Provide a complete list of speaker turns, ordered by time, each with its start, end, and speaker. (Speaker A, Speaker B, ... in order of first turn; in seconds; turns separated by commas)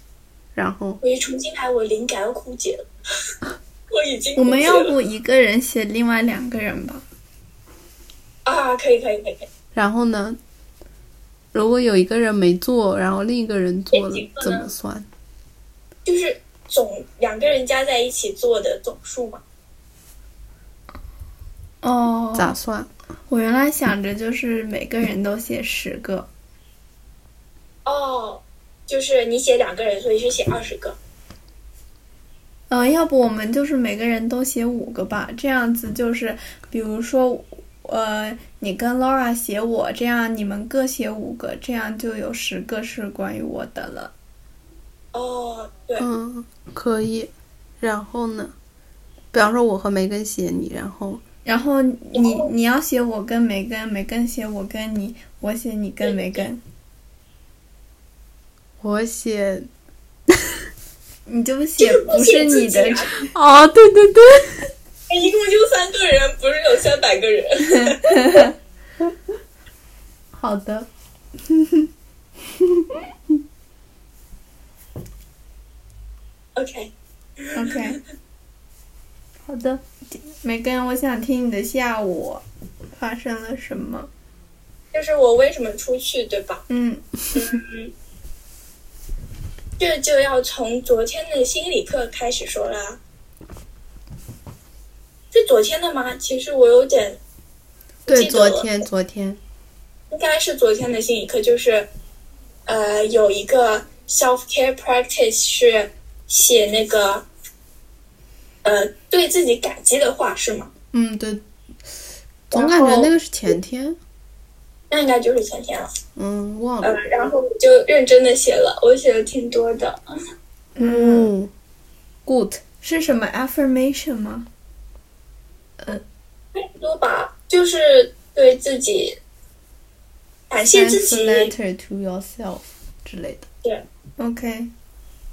Speaker A: 0.5-1.0, Speaker B: 1.0-2.9, Speaker B: 3.9-4.9, Speaker C: 4.3-7.0, Speaker B: 8.4-9.5, Speaker A: 9.7-10.4, Speaker A: 11.5-15.1, Speaker B: 13.9-14.7, Speaker B: 16.0-19.4, Speaker C: 21.8-22.5, Speaker A: 22.3-22.9, Speaker C: 23.3-26.3, Speaker B: 27.9-31.0, Speaker C: 32.7-44.1, Speaker B: 45.1-46.1, Speaker A: 46.0-48.5, Speaker A: 49.3-51.2, Speaker C: 51.4-56.6, Speaker B: 52.1-52.5, Speaker B: 56.0-56.4, Speaker A: 58.8-59.7, Speaker A: 60.3-60.6, Speaker C: 61.3-63.1, Speaker B: 61.8-63.2, Speaker A: 63.3-64.7, Speaker B: 65.1-68.4, Speaker C: 67.7-68.5, Speaker A: 70.3-70.9, Speaker B: 76.5-77.8, Speaker C: 77.5-78.0, Speaker A: 79.5-79.8, Speaker C: 80.2-84.1, Speaker B: 84.9-86.6, Speaker C: 86.7-87.0, Speaker B: 87.3-87.9, Speaker B: 89.8-93.0, Speaker B: 95.3-97.2, Speaker B: 98.1-98.7, Speaker A: 98.1-99.4, Speaker B: 100.1-101.9, Speaker B: 102.7-107.2, Speaker B: 108.6-110.7, Speaker A: 110.9-111.4, Speaker A: 112.5-114.0, Speaker B: 112.5-113.1, Speaker B: 114.9-115.9, Speaker A: 116.2-117.0, Speaker B: 116.8-120.0, Speaker C: 120.8-121.3, Speaker A: 120.8-121.5, Speaker A: 122.2-122.6, Speaker C: 122.8-124.5, Speaker B: 126.5-129.2, Speaker B: 130.5-131.5, Speaker A: 130.7-133.5, Speaker C: 134.2-134.7